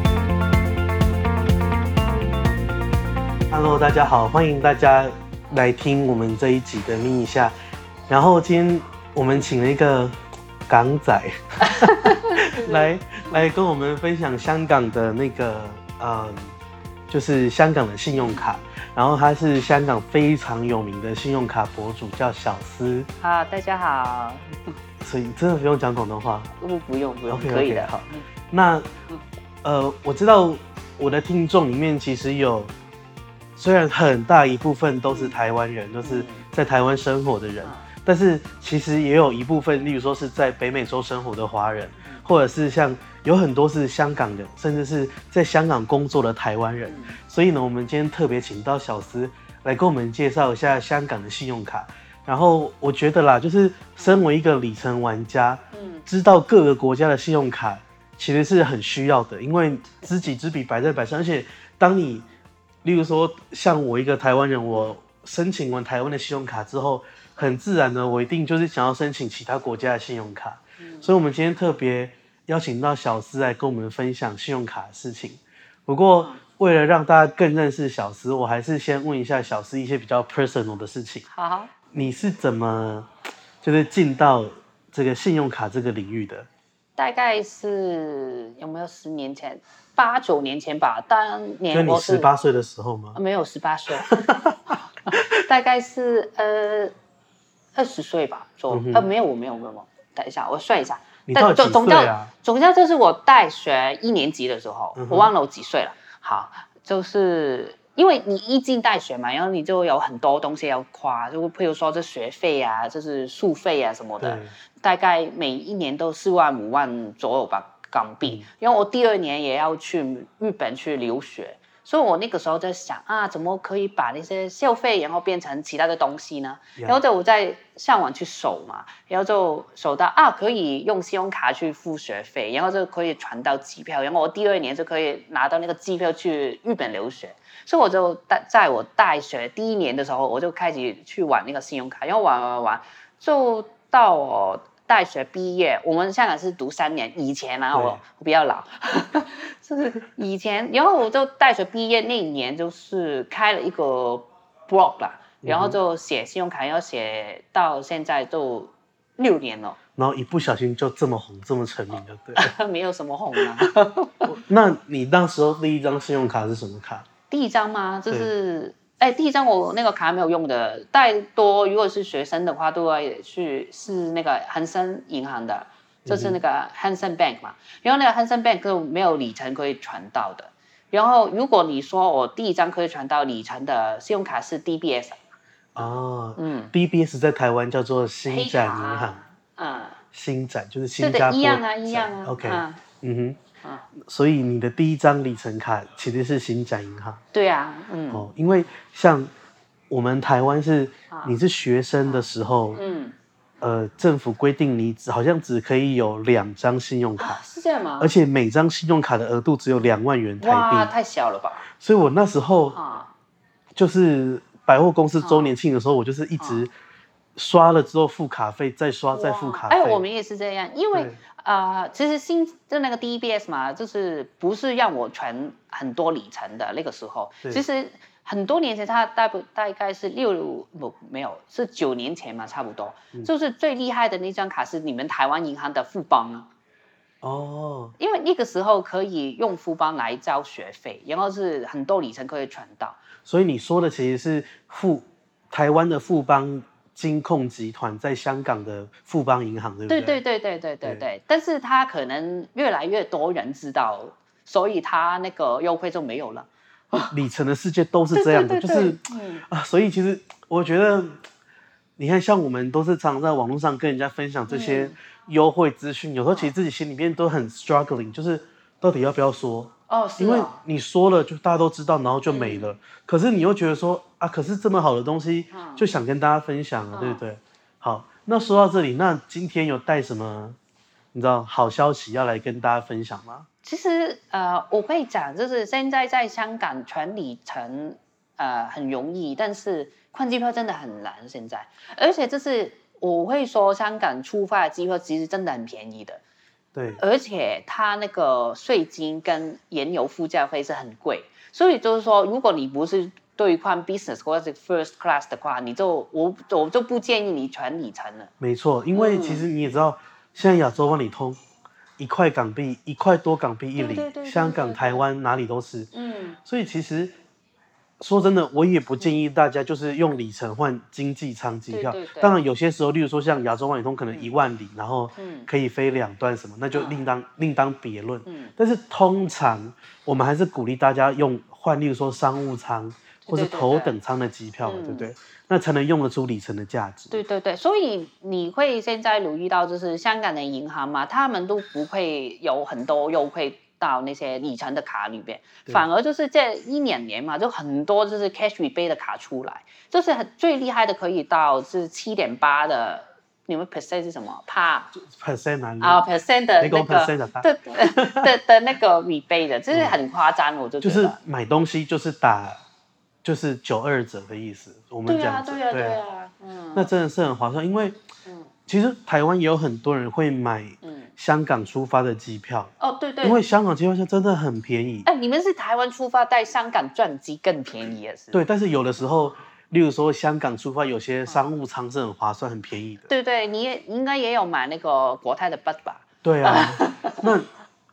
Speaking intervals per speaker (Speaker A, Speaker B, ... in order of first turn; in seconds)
Speaker A: 3.5-7.5, 8.1-10.1, 10.7-16.5, 17.1-23.1, 25.0-26.5, 27.3-28.9, 29.6-32.7, 33.5-62.2, 62.8-81.2, 81.9-83.1, 83.6-86.5, 91.7-93.2, 94.0-95.4, 98.7-99.1, 101.3-102.3, 105.0-105.3, 114.2-114.5, 147.7-148.0, 155.4-155.8, 159.9-162.5, 163.3-163.7, 164.2-167.1, 176.1-176.4, 185.7-189.2, 190.1-193.4, 193.9-197.2, 198.1-199.3, 199.9-202.8, 203.6-207.4, 208.0-210.9, 211.7-212.8, 213.7-216.7, 217.3-220.0, 220.9-221.2, 237.2-237.9, 243.2-250.2, 257.1-261.2, 262.0-280.6, 281.1-283.5, 296.7-297.0, 308.4-311.4, 312.0-315.9, 316.4-317.1, 318.0-337.2, 354.9-356.0, 356.6-358.3, 359.7-360.0, 360.8-362.6, 363.2-366.0, 366.7-368.0, 368.7-372.7, 373.2-375.1, 378.3-383.1, 386.2-387.5
Speaker B: 11.7-12.9, 23.2-24.6, 26.6-28.2, 35.1-35.4, 36.0-36.4, 46.9-47.2, 55.7-56.0, 70.8-71.1, 81.3-81.7, 87.0-92.3, 93.1-94.2, 95.1-96.9, 97.7-159.8, 162.3-164.3, 167.3-185.2, 185.8-186.7, 188.3-190.0, 191.0-192.8, 197.3-198.3, 201.1-201.4, 202.7-203.1, 207.2-208.2, 210.4-211.7, 212.7-213.1, 215.2-215.5, 219.1-236.5, 238.0-243.0, 249.9-257.1, 258.1-259.4, 264.5-264.9, 269.9-270.6, 272.3-272.7, 275.5-275.9, 276.9-277.2, 283.6-296.2, 297.0-308.3, 308.9-309.4, 313.8-315.0, 315.9-316.4, 321.7-322.4, 325.2-325.5, 326.7-327.0, 328.2-328.5, 333.2-333.9, 334.6-335.1, 337.1-354.9, 355.8-361.2, 365.1-366.9, 370.8-371.1, 372.8-373.4, 375.0-378.4, 383.1-387.3